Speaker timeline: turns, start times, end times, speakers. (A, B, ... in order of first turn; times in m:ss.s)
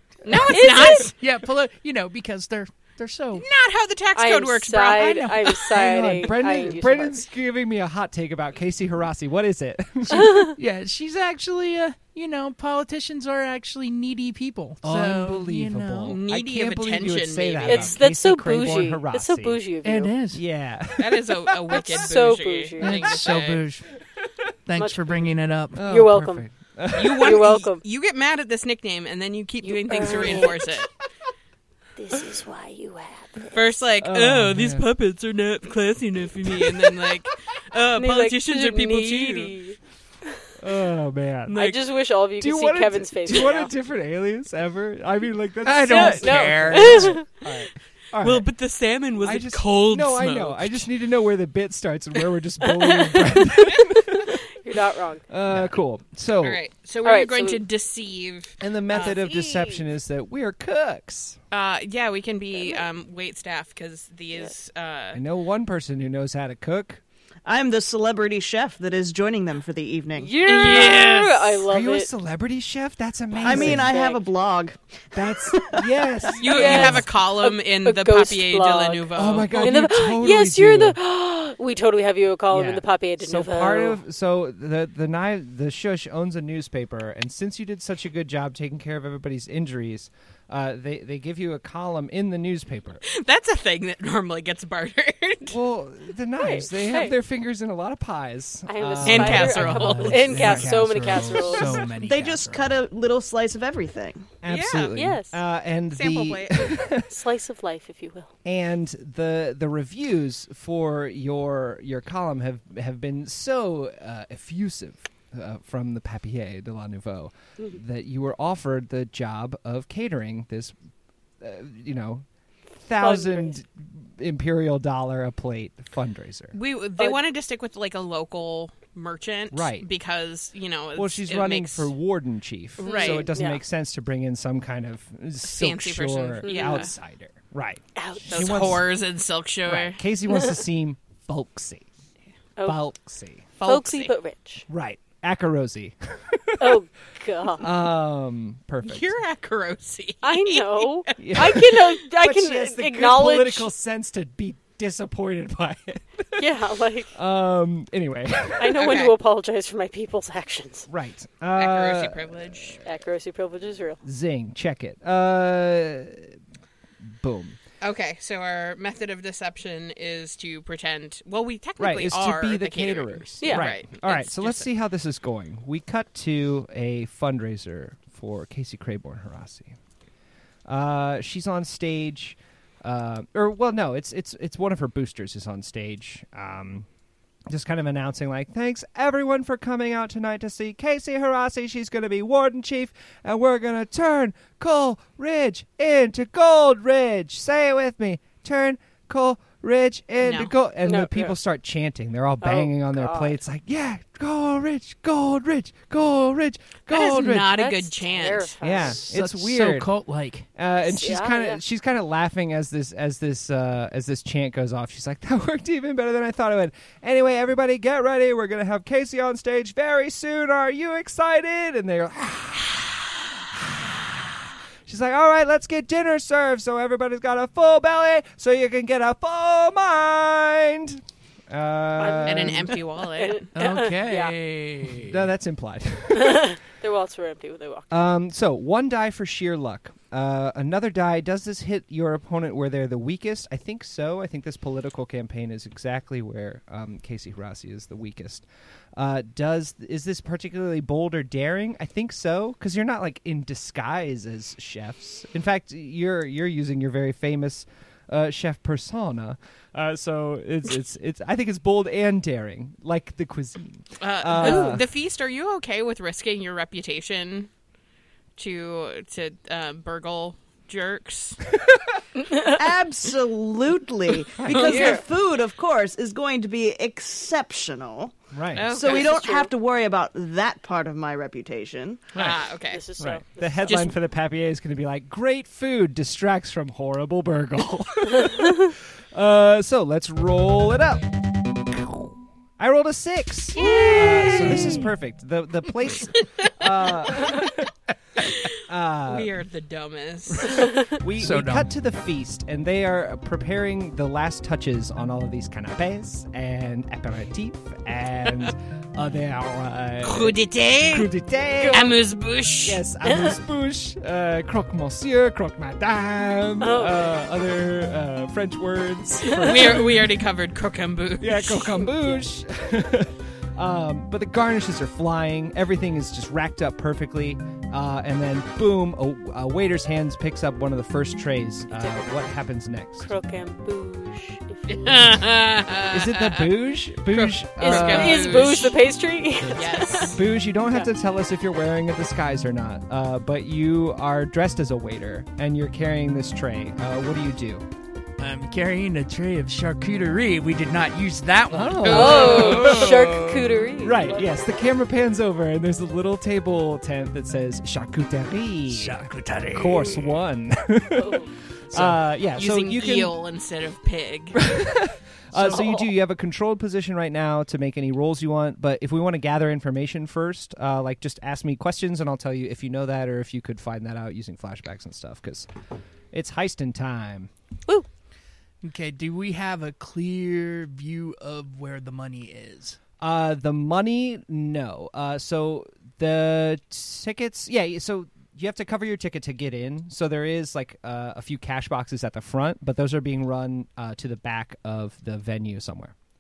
0:00.2-0:01.2 A
0:00.5-0:01.1 B
0:00.5-0:03.5 C
0:03.4-0:05.7 A
0:04.2-0:07.2 B
0:05.7-0:10.4 D
0:10.1-0:10.6 B
0:10.6-0:16.2 C
0:14.8-0:19.6 D
0:16.1-0:18.0 A
0:17.6-0:20.1 B
0:19.8-0:20.4 C
0:20.3-0:21.8 D
0:21.0-0:23.6 A
0:21.7-0:23.3 B
0:22.8-0:23.9 C
0:24.7-0:25.9 C
0:24.8-0:26.5 B
0:25.7-0:27.4 D
0:27.0-0:30.9 A
0:27.1-0:27.8 B
0:29.6-0:30.7 B
0:32.0-0:33.8 B
0:33.5-0:39.5 A
0:34.0-0:34.9 D
0:36.5-0:37.1 D
0:38.0-0:40.5 B
0:40.6-0:41.6 D
0:41.5-0:41.8 A
0:41.5-0:43.7 B
0:42.4-0:48.5 D
0:45.6-0:47.2 C
0:45.9-0:47.2 B
0:48.2-0:50.9 A
0:49.2-0:54.4 D
0:52.7-0:55.3 B
0:55.3-0:56.6 D
0:56.4-0:59.3 A
0:57.0-0:57.6 B
0:58.6-1:01.4 D
0:58.9-0:59.8 B
1:01.5-1:05.2 A
1:02.5-1:02.8 B
1:05.1-1:07.0 D
1:07.5-1:10.3 E
1:10.2-1:12.1 B
1:10.4-1:11.6 A
1:11.7-1:13.9 D
1:13.4-1:15.9 E
1:13.4-1:14.2 B
1:15.1-1:17.1 D
1:16.4-1:24.0 B
1:16.4-1:19.9 A
1:19.1-1:21.0 D
1:22.5-1:33.0 D
1:33.1-1:35.6 A
1:35.5-1:41.7 D
1:36.4-1:37.2 B
1:38.7-1:41.8 B
1:39.0-1:40.3 A
1:39.1-1:42.8 C
1:42.0-1:44.3 E
1:44.4-1:47.2 D
1:44.5-1:45.0 A
1:45.0-1:45.4 B
1:45.9-1:46.8 A
1:47.0-1:48.3 B
1:48.4-2:00.8 D
2:01.4-2:06.6 D
2:03.0-2:03.5 B
2:06.5-2:11.9 A
2:09.5-2:09.9 D
2:11.0-2:18.9 D
2:12.8-2:13.6 B
2:12.8-2:13.3 A
2:15.4-2:16.9 A
2:16.4-2:16.9 B
2:18.0-2:18.7 B
2:18.3-2:20.0 A
2:19.7-2:21.9 D
2:22.6-2:22.8 B
2:22.6-2:23.4 D
2:23.6-2:24.1 A
2:23.6-2:24.7 B
2:24.7-2:26.8 D
2:26.6-2:27.7 B
2:27.6-2:29.1 D
2:28.8-2:31.8 A
2:30.2-2:33.7 B
2:31.2-2:36.5 D
2:36.4-2:37.1 B
2:37.1-2:38.9 D
2:38.6-2:40.9 B
2:38.8-2:39.2 A
2:40.9-2:42.8 D
2:41.6-2:42.8 A
2:42.8-2:44.0 B
2:44.0-2:46.4 D
2:47.0-2:47.6 D
2:47.8-2:54.7 A
2:51.8-2:59.8 D
2:53.4-2:53.7 B
3:00.7-3:06.9 D
3:07.5-3:27.7 D
3:20.2-3:20.5 A
3:20.8-3:21.4 B
3:22.4-3:23.4 B
3:26.9-3:28.6 A
3:27.5-3:29.0 B
3:28.6-3:29.9 D
3:29.0-3:30.5 C
3:30.6-3:52.8 D
3:30.8-3:31.6 B
3:52.0-3:54.4 B
3:52.2-3:53.5 A
3:53.6-3:55.3 C
3:55.0-3:56.6 D
3:56.1-3:57.9 B
3:57.9-4:24.8 D
4:24.0-4:27.5 A
4:24.4-4:24.8 B
4:28.4-4:31.4 A
4:31.6-4:32.0 D
4:32.4-4:38.2 E
4:34.4-4:34.9 D
4:34.4-4:35.0 A
4:34.6-4:35.0 B
4:38.3-4:38.9 D
4:38.5-4:39.2 A
4:38.7-4:42.1 E
4:38.8-4:39.5 B
4:42.1-4:42.8 A
4:42.2-4:42.4 D
4:42.7-4:43.9 B
4:43.0-4:51.1 D
4:43.7-4:44.0 A
4:51.7-4:57.7 D
4:53.6-4:54.9 B
4:58.5-4:59.3 D
4:59.1-5:00.8 A
5:00.5-5:10.4 D
5:01.2-5:01.7 C
5:10.0-5:11.1 A
5:10.9-5:12.0 D
5:11.7-5:12.8 A
5:12.6-5:20.1 D
5:13.1-5:13.3 B
5:16.6-5:17.0 B
5:19.3-5:21.8 A
5:21.2-5:33.1 D
5:21.9-5:22.2 B
5:31.7-5:32.0 B
5:33.0-5:35.2 B
5:34.7-5:38.8 A
5:35.9-5:38.6 D
5:37.6-5:40.9 B
5:39.4-5:40.2 A
5:40.1-5:47.6 D
5:48.2-5:53.6 C
5:51.5-5:53.0 D
5:51.8-5:52.9 A
5:51.8-5:54.4 B
5:53.8-6:03.1 D
5:58.7-6:00.1 C
6:00.9-6:01.3 B
6:02.4-6:04.4 A
6:04.4-6:15.5 D
6:05.3-6:05.8 C
6:16.1-6:17.3 D
6:18.6-6:22.8 C
6:23.0-6:35.9 D